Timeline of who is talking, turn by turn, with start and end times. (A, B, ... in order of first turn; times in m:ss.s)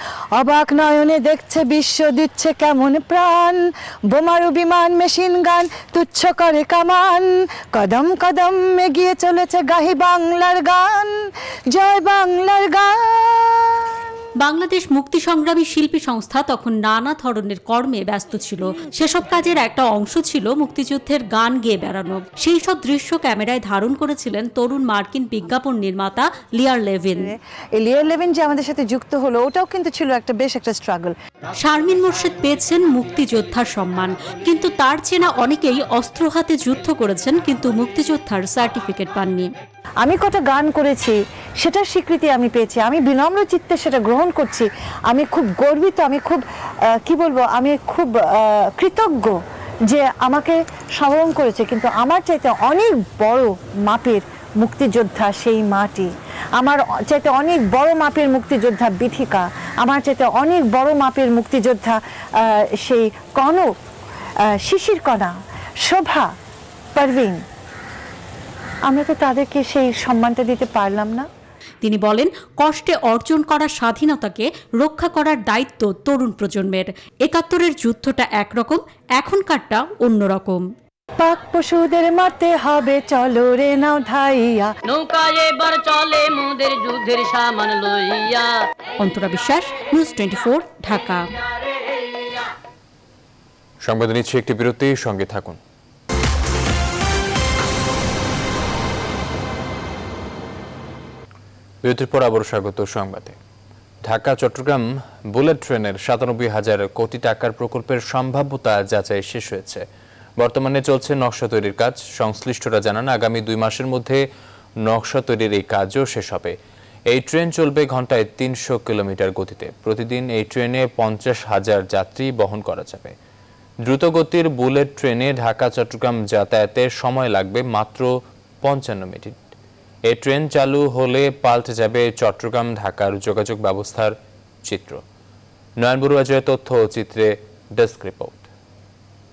0:00.4-0:13.6 A
0:14.4-0:27.3 B
0:27.2-0:31.2 A
0:31.6-0:39.5 B
0:40.0-1:03.8 A
1:04.5-1:06.4 A
1:07.0-1:07.4 A
1:08.9-1:11.3 A
1:11.8-1:20.7 B
1:21.2-1:24.7 A
1:24.9-1:28.5 C
1:29.0-1:31.3 B
1:33.8-1:35.6 D
1:41.8-1:43.4 D
1:44.0-1:49.8 D
1:50.4-1:54.2 D
1:54.8-1:56.6 D
1:57.1-2:03.1 D
2:03.8-2:09.4 D
2:10.1-2:15.0 D
2:15.8-2:18.5 D